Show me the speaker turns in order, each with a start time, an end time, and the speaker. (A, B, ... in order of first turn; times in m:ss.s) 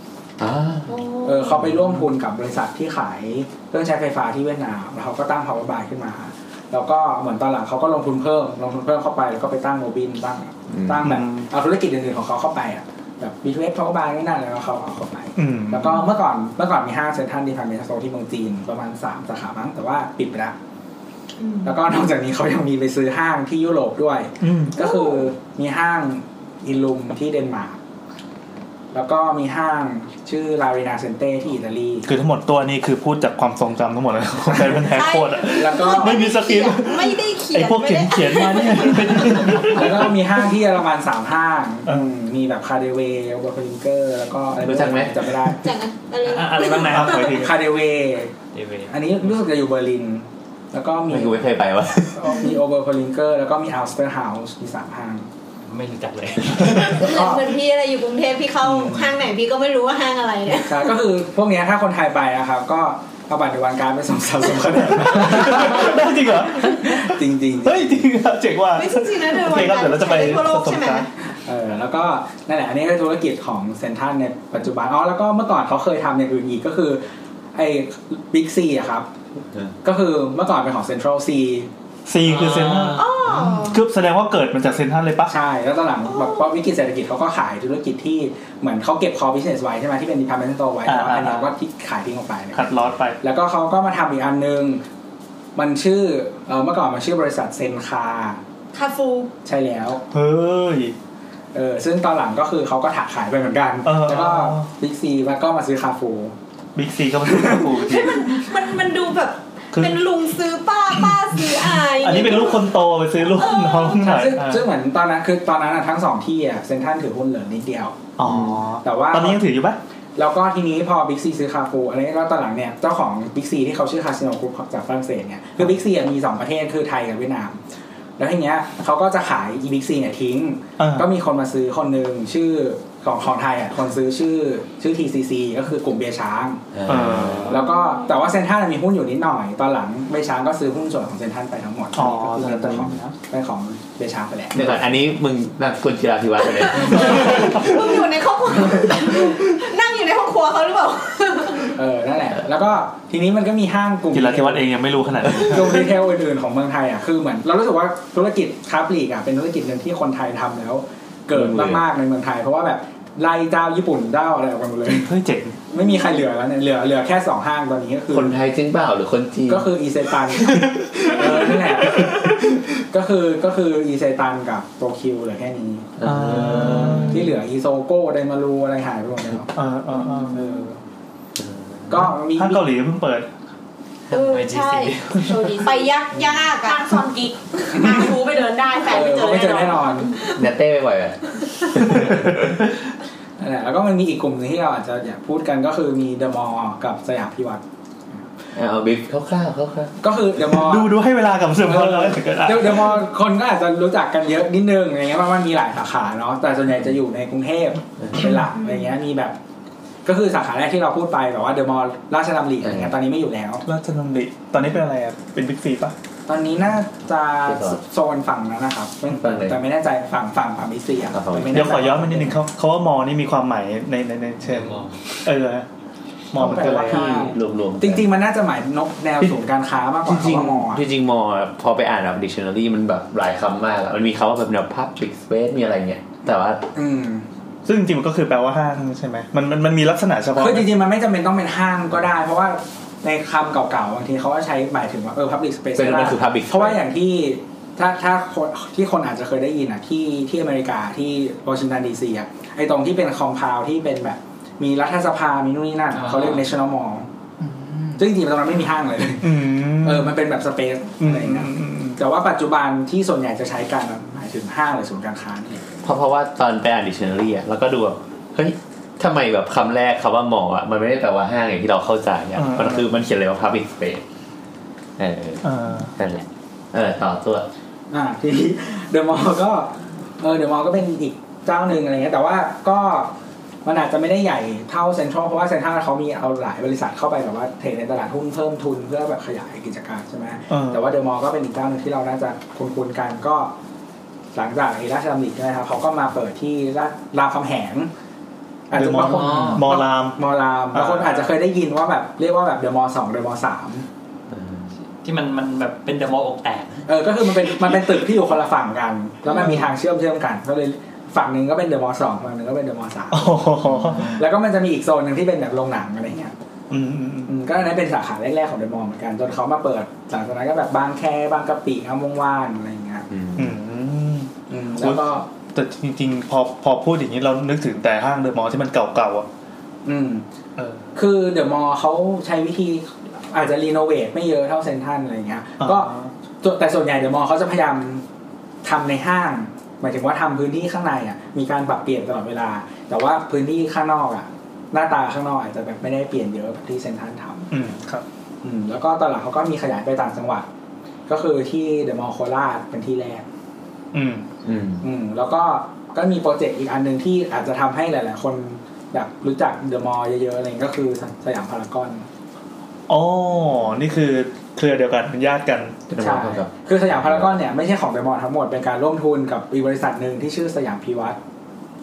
0:00.4-0:01.0 A
0:00.9-0:01.6 B
0:01.2-0:20.5 C
0:10.7-0:11.1 A
0:11.0-0:11.5 D
0:15.4-0:16.1 D
0:21.4-0:21.8 B
0:21.6-0:27.8 C
0:24.4-0:24.8 D
0:24.8-0:25.2 B
0:28.9-0:32.1 C
0:32.0-0:40.1 D
0:34.8-0:39.8 B
0:35.5-0:36.3 C
0:39.7-0:45.7 C
0:44.6-0:45.5 A
0:45.5-0:47.4 B
0:46.2-0:47.4 E
0:46.7-0:47.6 D
0:47.2-0:48.3 C
0:48.5-0:49.3 E
0:48.9-0:51.4 C
0:51.1-0:52.4 A
0:52.1-0:55.3 C
0:55.6-0:57.1 E
0:56.7-1:00.9 B
0:56.9-0:57.5 C
0:58.6-0:59.1 C
1:00.6-1:08.0 C
1:04.9-1:11.1 D
1:08.7-1:11.1 B
1:11.4-1:17.0 C
1:17.5-1:19.1 C
1:19.8-1:21.7 C
1:22.1-1:25.3 D
1:22.4-1:23.0 E
1:22.9-1:23.8 B
1:25.3-1:34.8 C
1:26.2-1:26.4 B
1:30.8-1:31.5 D
1:32.5-1:33.2 D
1:35.6-1:38.4 C
1:38.7-1:39.3 B
1:39.4-1:40.0 C
1:40.1-1:40.9 D
1:41.5-1:46.3 C
1:43.8-1:44.7 D
1:46.8-1:48.4 D
1:47.3-1:47.6 C
1:47.7-1:52.6 B
1:49.7-1:50.0 D
1:50.9-1:54.6 D
1:53.3-1:54.3 B
1:54.0-1:58.0 C
1:58.2-1:59.8 D
1:58.8-1:59.4 C
2:00.2-2:07.6 C
2:08.2-2:16.6 C
2:10.8-2:11.1 D
2:16.7-2:17.6 A
2:16.9-2:17.6 D
2:17.4-2:24.8 C
2:21.9-2:23.1 D
2:24.5-2:27.6 A
2:26.4-2:31.7 B
2:31.7-2:34.7 C
2:34.1-2:35.9 D
2:35.3-2:45.1 C
2:41.3-2:41.8 A
2:44.9-2:45.6 D
2:45.7-2:48.3 C
2:48.1-2:49.7 A
2:49.5-2:56.0 C
2:50.5-2:51.3 D
2:56.0-2:57.2 A
2:56.0-2:57.3 D
2:56.8-2:59.5 C
2:59.5-3:00.4 D
3:00.0-3:00.4 B
3:00.3-3:00.8 C
3:01.4-3:02.0 A
3:01.9-3:02.7 C
3:02.3-3:03.3 D
3:04.1-3:06.9 B
3:04.1-3:05.7 E
3:06.6-3:10.2 F
3:07.7-3:08.0 C
3:08.8-3:10.1 C
3:10.3-3:12.5 A
3:11.9-3:12.4 D
3:13.4-3:17.6 C
3:18.5-3:19.9 A
3:20.0-3:21.0 C
3:20.4-3:23.0 D
3:21.5-3:29.4 C
3:28.0-3:28.3 A
3:28.6-3:28.9 B
3:30.0-3:33.6 C
3:32.6-3:32.9 A
3:33.6-3:35.9 D
3:36.3-3:42.4 C
3:37.4-3:37.8 A
3:39.2-3:39.6 A
3:41.1-3:41.8 A
3:41.5-3:45.6 D
3:44.6-3:44.8 E
3:46.3-3:47.3 D
3:46.3-3:50.8 C
3:46.8-3:48.1 A
3:50.0-3:56.6 A
3:56.7-3:57.3 C
3:57.6-4:00.7 D
4:00.3-4:17.1 C
4:05.7-4:06.8 A
4:15.9-4:16.4 E
4:17.4-4:18.0 D
4:18.0-4:25.6 C
4:19.2-4:20.2 D
4:21.0-4:22.0 D
4:25.8-4:34.0 A
4:32.4-4:32.8 D
4:35.0-4:35.4 A
4:35.4-4:35.9 D
4:36.0-4:37.5 A
4:37.9-4:43.1 C
4:43.6-4:53.5 C
4:50.5-4:50.9 D
4:54.3-4:57.9 C
4:58.7-5:03.8 C
4:58.7-5:00.2 D
4:59.1-4:59.6 E
5:00.7-5:01.3 D
5:04.3-5:04.7 A
5:04.8-5:06.8 E
5:06.9-5:16.3 C
5:13.1-5:14.2 D
5:16.7-5:17.3 D
5:17.3-5:23.1 C
5:23.1-5:23.5 A
5:23.4-5:29.2 D
5:24.5-5:25.2 C
5:29.8-5:30.2 C
5:30.6-5:30.9 D
5:30.9-5:38.0 C
5:35.6-5:36.1 D
5:38.6-5:47.5 C
5:47.5-5:48.0 D
5:48.4-5:50.5 C
5:51.1-5:53.2 C
5:53.9-5:54.2 D
5:54.4-5:54.9 A
5:54.8-6:02.0 C
6:02.9-6:05.9 D
6:05.9-6:07.4 A
6:06.0-6:11.2 C